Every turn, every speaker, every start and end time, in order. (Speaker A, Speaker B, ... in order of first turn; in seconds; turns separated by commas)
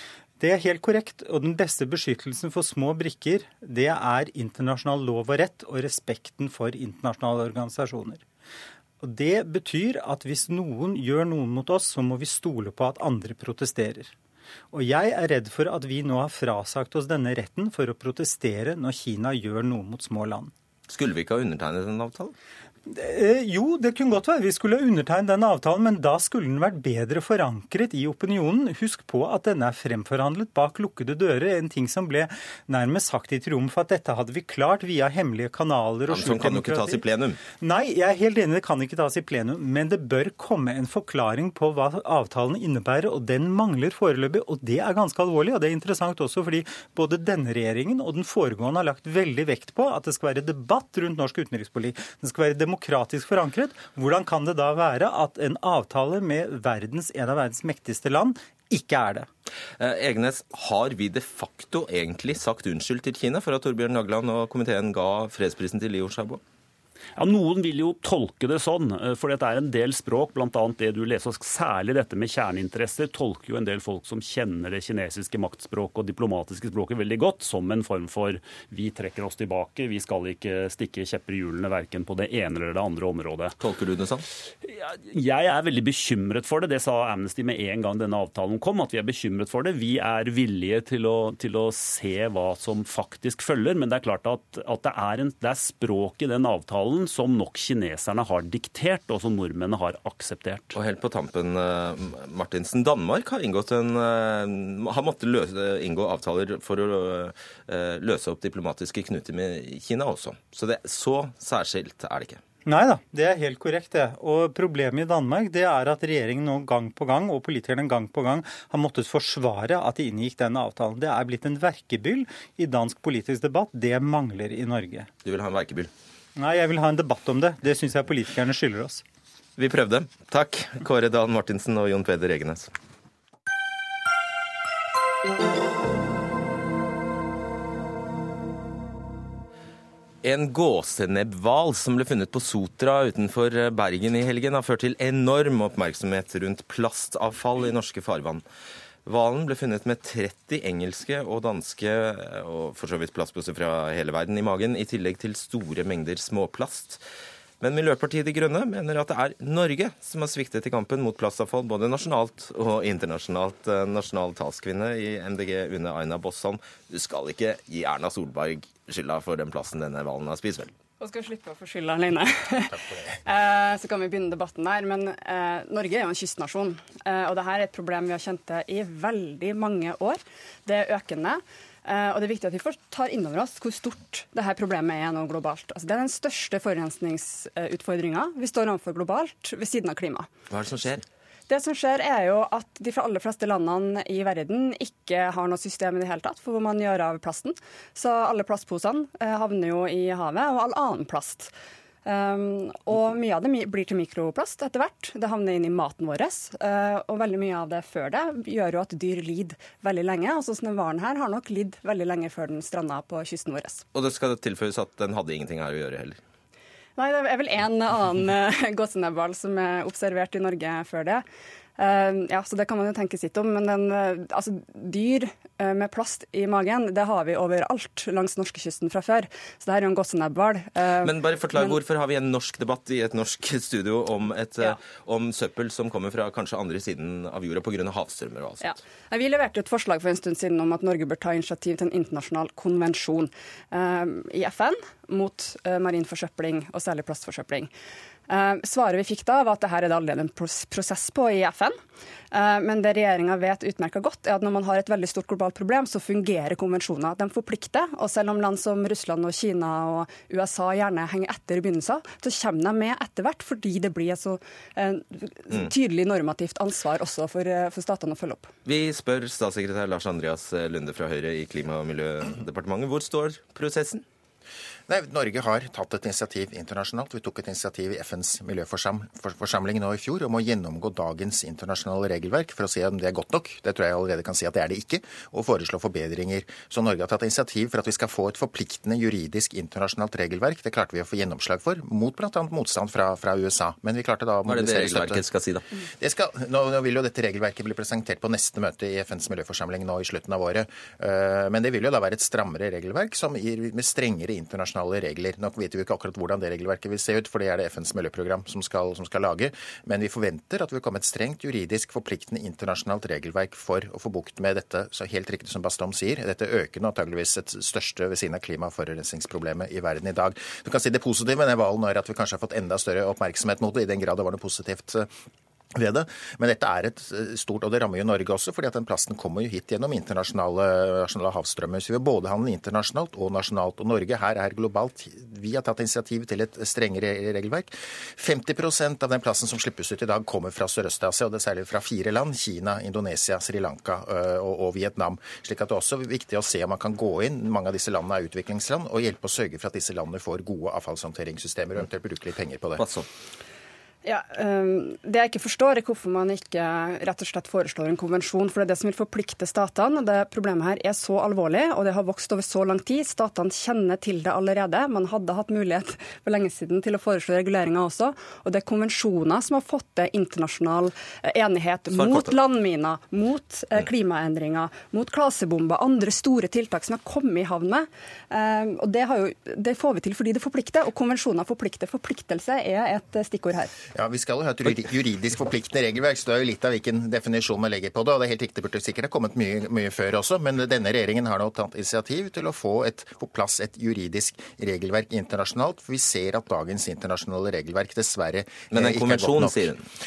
Speaker A: 0.4-8.2, Speaker A: 9.0-14.1, Speaker A: 14.7-20.5, Speaker B: 20.9-22.3, Speaker A: 22.9-37.0, Speaker B: 36.1-37.4, Speaker A: 37.6-59.3, Speaker B: 59.8-66.4, Speaker C: 67.2-83.5, Speaker B: 83.6-84.2, Speaker C: 84.6-100.7, Speaker B: 100.7-112.4, Speaker A: 112.6-125.1, Speaker B: 125.2-125.9, Speaker A: 126.3-129.0, Speaker B: 129.6-132.7, Speaker B: 140.2-148.4, Speaker B: 149.0-157.0, Speaker B: 157.6-170.7, Speaker D: 171.0-190.3, Speaker B: 190.5-191.0, Speaker D: 191.5-201.5, Speaker D: 202.0-213.8, Speaker B: 213.9-216.2, Speaker D: 216.9-221.2, Speaker D: 221.8-231.8, Speaker B: 231.0-238.8, Speaker D: 238.6-247.7, Speaker D: 248.3-251.8, Speaker D: 252.3-268.5, Speaker B: 268.6-274.0, Speaker E: 274.9-295.2, Speaker B: 294.4-295.6, Speaker E: 296.0-325.1, Speaker E: 325.7-352.8, Speaker B: 352.8-353.1, Speaker D: 354.0-383.7, Speaker B: 371.9-372.4, Speaker E: 383.9-399.7, Speaker B: 398.7-399.9